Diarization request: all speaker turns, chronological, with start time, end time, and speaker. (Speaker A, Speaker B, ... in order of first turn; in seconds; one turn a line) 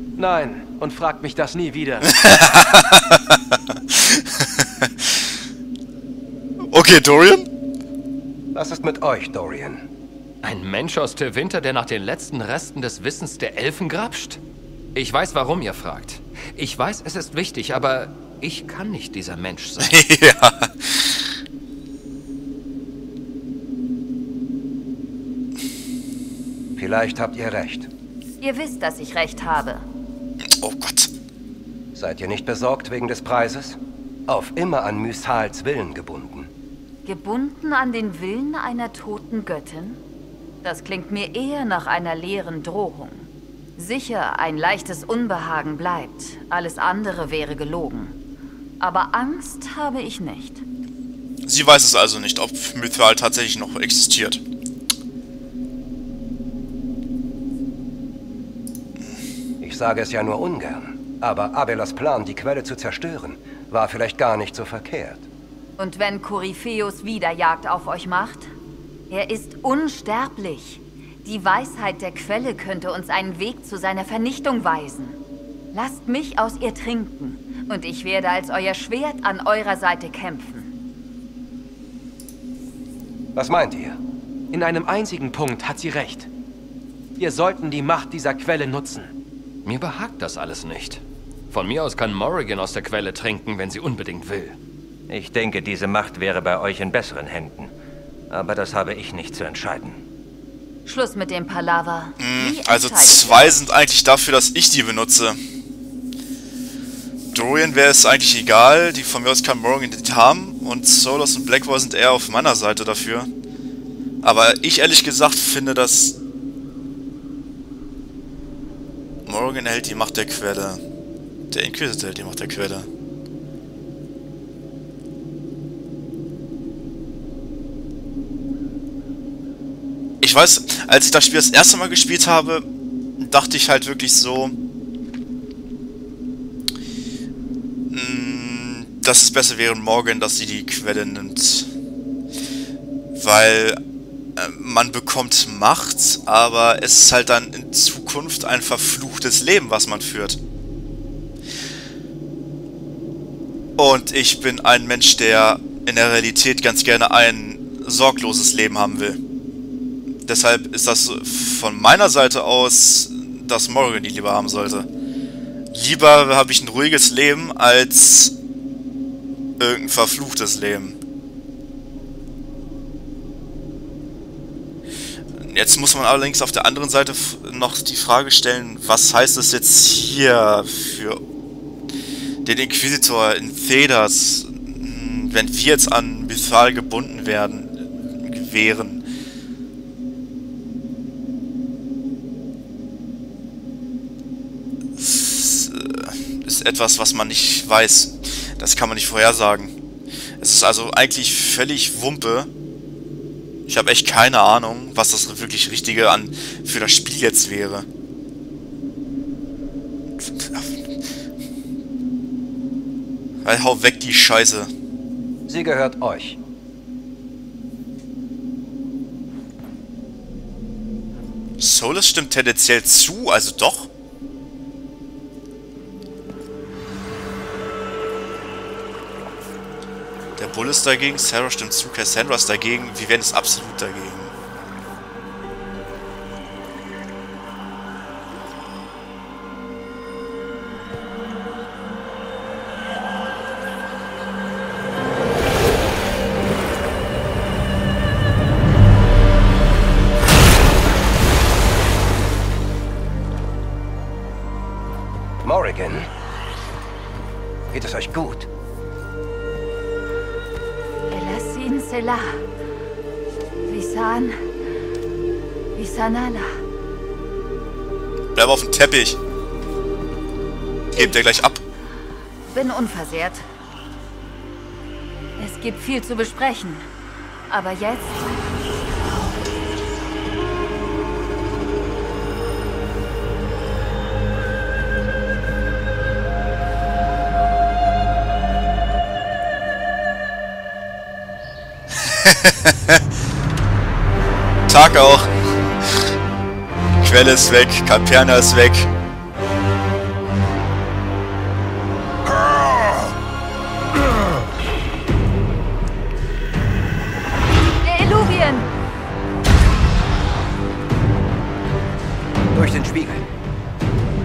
Speaker A: 0.2-2.2
Speaker B: 2.0-5.2
Speaker B: 6.7-7.5
Speaker C: 8.5-9.8
Speaker D: 10.4-14.4
Speaker D: 14.9-19.9
Speaker B: 19.8-21.2
Speaker C: 26.7-27.9
Speaker E: 28.4-29.8
Speaker B: 30.4-31.1
Speaker C: 31.9-36.5
Speaker E: 37.0-40.0
Speaker E: 40.6-48.1
Speaker E: 48.8-50.6
Speaker B: 51.5-54.4
Speaker C: 59.6-65.2
Speaker E: 65.8-68.5
Speaker E: 69.1-75.2
Speaker E: 75.7-80.7
Speaker C: 83.3-84.0
Speaker A: 84.5-86.3
Speaker A: 87.2-89.1
Speaker D: 89.6-94.6
Speaker F: 95.1-97.7
Speaker F: 98.3-100.0
Speaker E: 100.8-103.6
Speaker B: 102.2-105.4
Speaker B: 107.3-113.3
Speaker B: 114.2-116.2
Speaker B: 119.2-120.8
Speaker B: 121.5-122.9
Speaker B: 130.2-132.6
Speaker B: 133.2-134.5
Speaker B: 137.9-141.7
Speaker B: 143.2-143.8
Speaker B: 144.4-150.4
Speaker B: 153.8-159.2
Speaker B: 160.2-164.9
Speaker B: 165.7-168.3
Speaker B: 169.6-170.9
Speaker B: 175.4-181.2
Speaker B: 182.4-189.0
Speaker B: 195.0-199.7
Speaker B: 200.4-202.5
Speaker B: 203.7-207.8
Speaker B: 210.2-210.8
Speaker B: 213.4-214.7
Speaker C: 215.5-216.4
Speaker B: 221.6-223.9
Speaker B: 230.4-234.3
Speaker C: 255.4-256.1
Speaker C: 257.7-258.5
Speaker E: 261.1-262.4
Speaker E: 263.6-264.4
Speaker E: 265.7-266.5
Speaker B: 268.3-269.2
Speaker B: 270.9-271.6
Speaker E: 272.5-273.4
Speaker E: 275.4-276.9
Speaker E: 277.5-278.3
Speaker B: 292.0-293.0
Speaker B: 294.7-295.3
Speaker B: 297.0-298.9
Speaker E: 307.8-308.7
Speaker C: 312.5-313.2